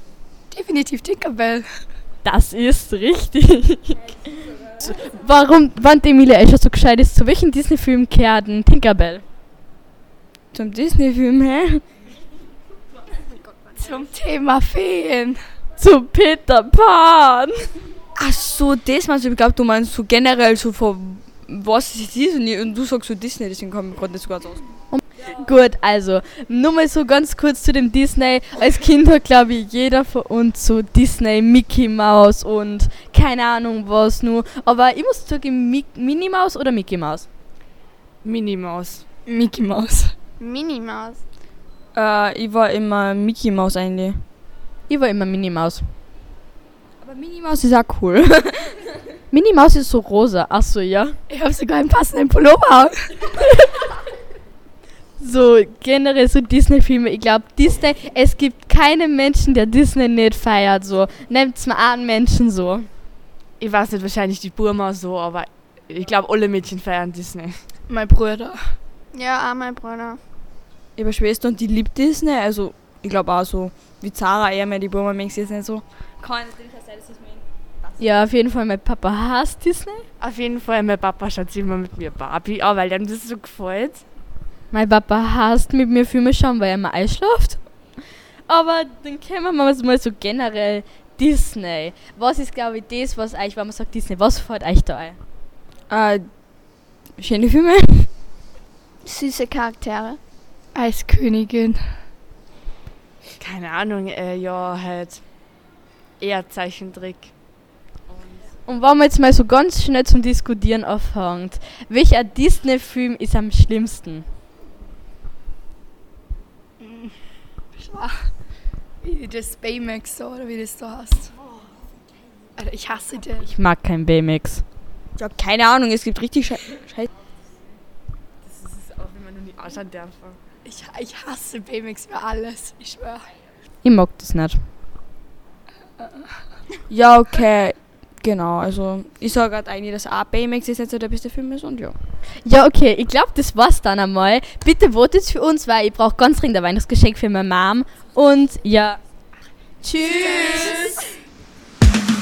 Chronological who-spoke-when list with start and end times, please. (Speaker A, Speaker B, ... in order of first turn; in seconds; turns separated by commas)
Speaker A: 0.5-1.7, Speaker B: 2.2-9.2, Speaker C: 10.5-11.8, Speaker A: 13.8-15.4, Speaker B: 15.8-17.6, Speaker C: 18.2-24.6, Speaker B: 24.9-37.3, Speaker D: 38.2-39.0, Speaker A: 39.3-40.1, Speaker E: 40.4-41.2, Speaker C: 42.0-44.2, Speaker B: 44.9-45.9, Speaker C: 47.0-48.7, Speaker B: 49.3-51.2, Speaker A: 51.3-53.0, Speaker B: 55.2-62.9, Speaker D: 63.6-67.6, Speaker A: 67.9-68.6, Speaker E: 69.1-70.2, Speaker C: 71.0-77.4, Speaker B: 78.0-80.0, Speaker D: 80.2-84.0, Speaker B: 84.7-87.6, Speaker B: 88.5-95.2, Speaker C: 95.9-96.2, Speaker C: 97.2-98.1, Speaker E: 99.0-100.2, Speaker A: 100.8-101.8, Speaker D: 103.4-105.2, Speaker D: 106.2-107.3, Speaker D: 108.1-108.5, Speaker B: 108.7-114.3, Speaker A: 116.8-117.1, Speaker A: 117.8-118.3, Speaker A: 119.0-121.3, Speaker A: 122.6-123.5, Speaker B: 123.4-124.6, Speaker C: 125.2-127.1, Speaker D: 128.4-130.4, Speaker A: 130.7-133.3, Speaker B: 133.8-134.6, Speaker C: 136.9-142.0, Speaker B: 142.4-149.0, Speaker B: 149.8-150.9